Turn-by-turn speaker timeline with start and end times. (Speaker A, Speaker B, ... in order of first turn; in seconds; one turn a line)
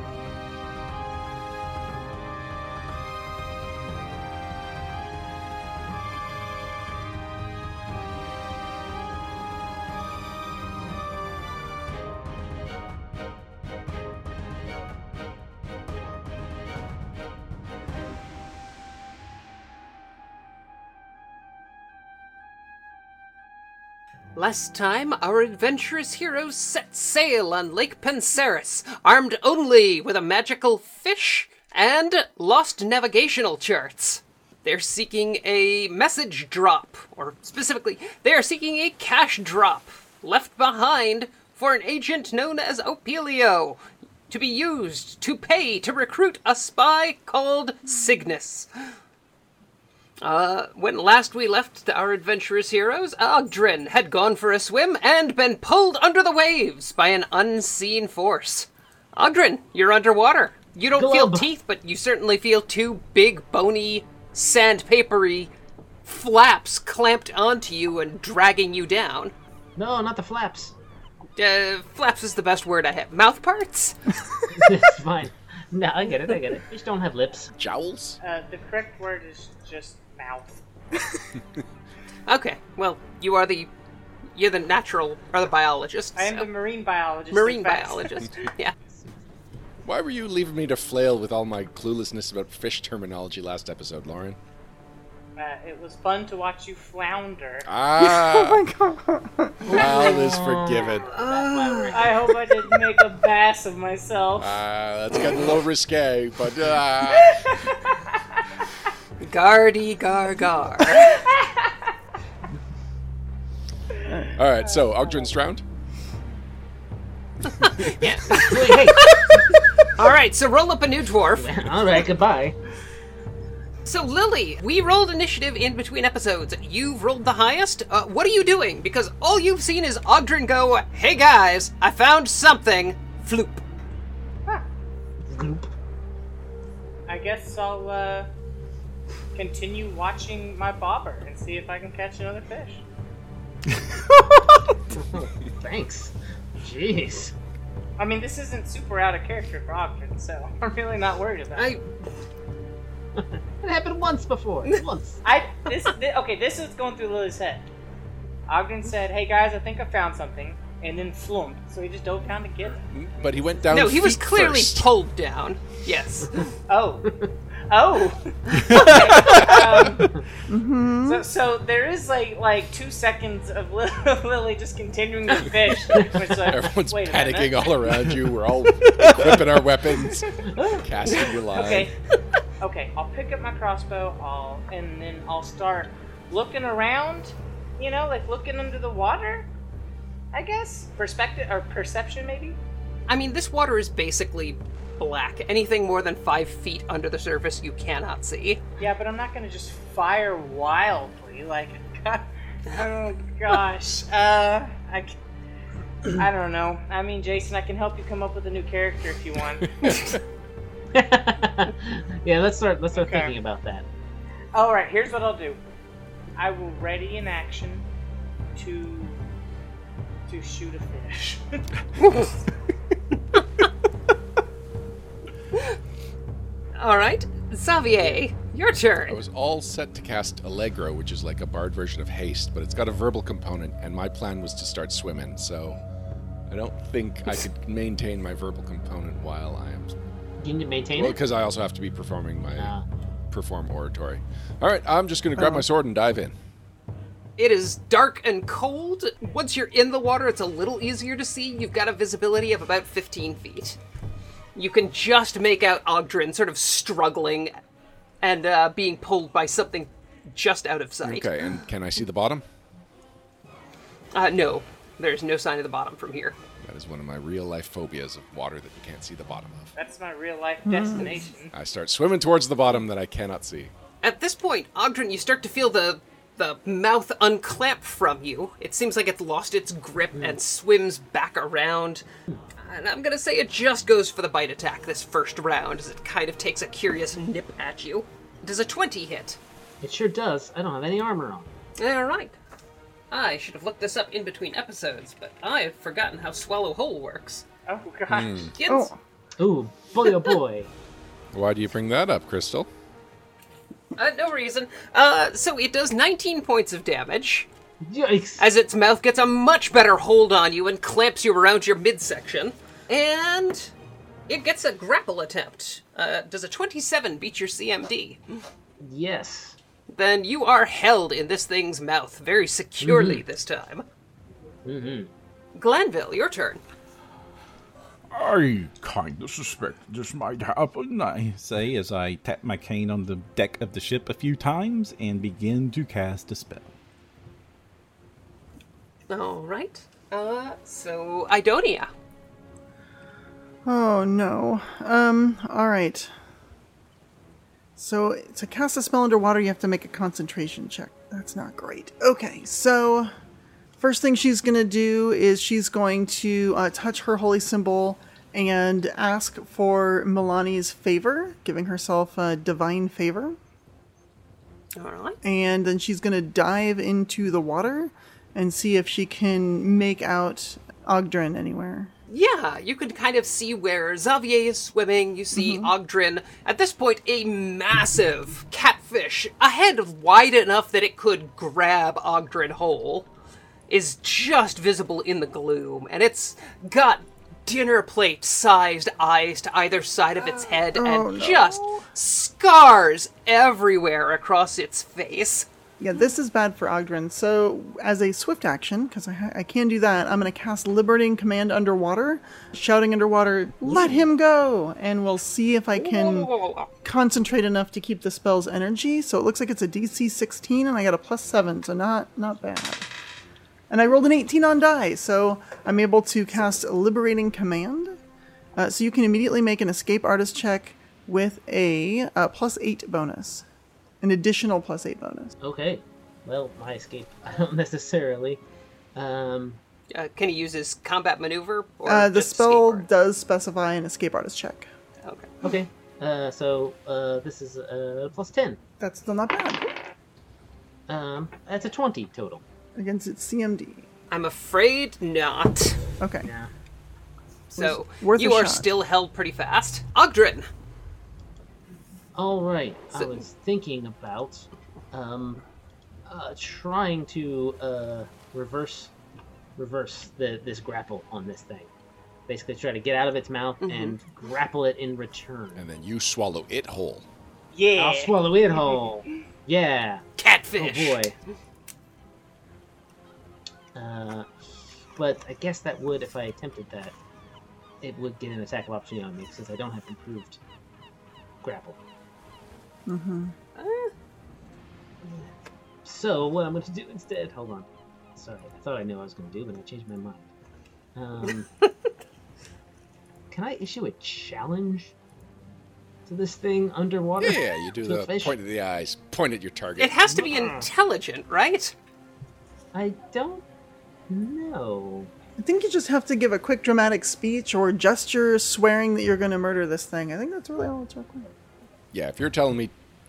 Speaker A: 24.4-48.7
Speaker A: 50.2-65.5
Speaker B: 61.0-61.5
Speaker A: 66.0-69.3
Speaker B: 69.8-70.7
Speaker A: 71.4-74.2
Speaker B: 74.5-77.5
Speaker C: 77.6-78.2
Speaker D: 78.2-80.6
Speaker A: 82.3-83.7
Speaker A: 84.3-86.5
Speaker D: 86.2-88.4
Speaker A: 87.3-88.7
Speaker C: 89.8-94.4
Speaker D: 95.4-97.7
Speaker C: 97.6-98.6
Speaker E: 98.0-99.9
Speaker B: 99.7-102.3
Speaker C: 99.7-101.1
Speaker A: 101.1-102.2
Speaker D: 101.9-104.6
Speaker C: 104.4-107.5
Speaker D: 107.1-108.2
Speaker A: 109.2-111.2
Speaker D: 110.8-111.8
Speaker D: 114.2-115.4
Speaker C: 114.3-115.6
Speaker A: 117.5-121.6
Speaker B: 118.3-119.2
Speaker B: 121.4-122.6
Speaker A: 123.9-133.6
Speaker B: 135.3-135.7
Speaker D: 137.1-138.3
Speaker D: 139.3-142.8
Speaker F: 143.8-144.4
Speaker B: 144.9-147.3
Speaker D: 148.0-151.8
Speaker A: 151.6-151.9
Speaker B: 153.2-155.2
Speaker D: 155.2-157.7
Speaker D: 158.5-162.8
Speaker C: 162.9-164.9
Speaker A: 163.7-166.5
Speaker D: 166.7-170.2
Speaker C: 168.8-169.8
Speaker E: 170.5-171.3
Speaker D: 171.1-177.7
Speaker C: 176.5-181.9
Speaker D: 179.0-179.4
Speaker B: 180.5-180.8
Speaker D: 181.5-181.9
Speaker D: 182.6-189.5
Speaker D: 190.3-192.6
Speaker A: 193.1-198.6
Speaker D: 198.8-205.1
Speaker D: 206.0-210.2
Speaker C: 209.8-210.2
Speaker B: 210.9-213.9
Speaker D: 212.9-213.3
Speaker D: 214.5-215.6
Speaker D: 216.4-217.9
Speaker D: 218.6-219.2
Speaker D: 220.3-221.7
Speaker A: 222.0-222.3
Speaker A: 226.8-229.2
Speaker C: 229.1-235.8
Speaker C: 236.5-239.9
Speaker B: 240.4-241.2
Speaker C: 240.9-242.7
Speaker B: 242.6-242.8
Speaker C: 243.3-246.3
Speaker E: 245.4-245.7
Speaker A: 247.4-253.8
Speaker A: 254.6-257.5
Speaker A: 258.2-261.3
Speaker C: 261.0-262.4
Speaker A: 264.1-266.4
Speaker C: 266.6-269.7
Speaker D: 269.8-271.5
Speaker E: 270.6-271.2
Speaker C: 271.5-273.7
Speaker A: 274.0-282.0
Speaker A: 282.6-289.4
Speaker B: 289.8-291.5
Speaker A: 291.8-292.4
Speaker A: 293.1-297.4
Speaker D: 297.7-298.5
Speaker C: 298.1-298.6
Speaker A: 298.6-298.9
Speaker E: 298.6-299.0
Speaker B: 299.4-300.7
Speaker C: 301.3-302.7
Speaker A: 304.0-307.5
Speaker B: 307.8-308.4
Speaker A: 308.4-313.7
Speaker A: 314.3-318.2
Speaker B: 318.8-319.6
Speaker A: 319.9-323.9
Speaker B: 322.8-323.2
Speaker B: 324.6-325.1
Speaker A: 325.6-326.6
Speaker F: 328.1-336.7
Speaker A: 339.1-341.9
Speaker E: 343.6-346.1
Speaker E: 347.8-353.1
Speaker E: 353.8-363.4
Speaker A: 364.8-365.2
Speaker E: 365.2-371.9
Speaker A: 372.1-383.1
Speaker E: 375.4-375.7
Speaker A: 383.7-395.5
Speaker E: 390.2-391.8
Speaker E: 395.8-406.3
Speaker A: 405.8-406.7
Speaker E: 406.8-412.9
Speaker E: 413.7-418.0
Speaker E: 418.6-423.4
Speaker E: 424.0-425.3
Speaker B: 425.4-428.4
Speaker B: 428.9-429.6
Speaker A: 429.9-432.9
Speaker E: 431.9-434.7
Speaker A: 435.0-435.3
Speaker B: 435.4-438.6
Speaker E: 438.8-439.6
Speaker B: 440.9-442.4
Speaker E: 442.8-443.9
Speaker A: 444.1-445.8
Speaker E: 446.0-446.3
Speaker B: 446.2-446.5
Speaker A: 447.5-450.5
Speaker E: 447.6-448.7
Speaker B: 452.1-455.4
Speaker B: 456.1-458.9
Speaker B: 459.6-461.7
Speaker B: 462.3-465.6
Speaker A: 463.6-463.9
Speaker C: 465.6-467.1
Speaker D: 467.5-468.9
Speaker B: 467.8-470.0
Speaker A: 470.2-471.0
Speaker B: 470.6-471.1
Speaker B: 473.8-474.3
Speaker B: 474.9-476.9
Speaker B: 477.8-480.4
Speaker B: 481.4-481.8
Speaker E: 482.9-483.3
Speaker A: 483.6-483.9
Speaker B: 485.9-490.3
Speaker B: 490.9-491.5
Speaker B: 493.3-494.9
Speaker B: 496.1-498.4
Speaker C: 497.2-500.0
Speaker A: 499.8-501.7
Speaker B: 500.1-500.7
Speaker B: 502.7-503.4
Speaker B: 504.1-505.1
Speaker E: 505.4-511.3
Speaker C: 511.9-512.7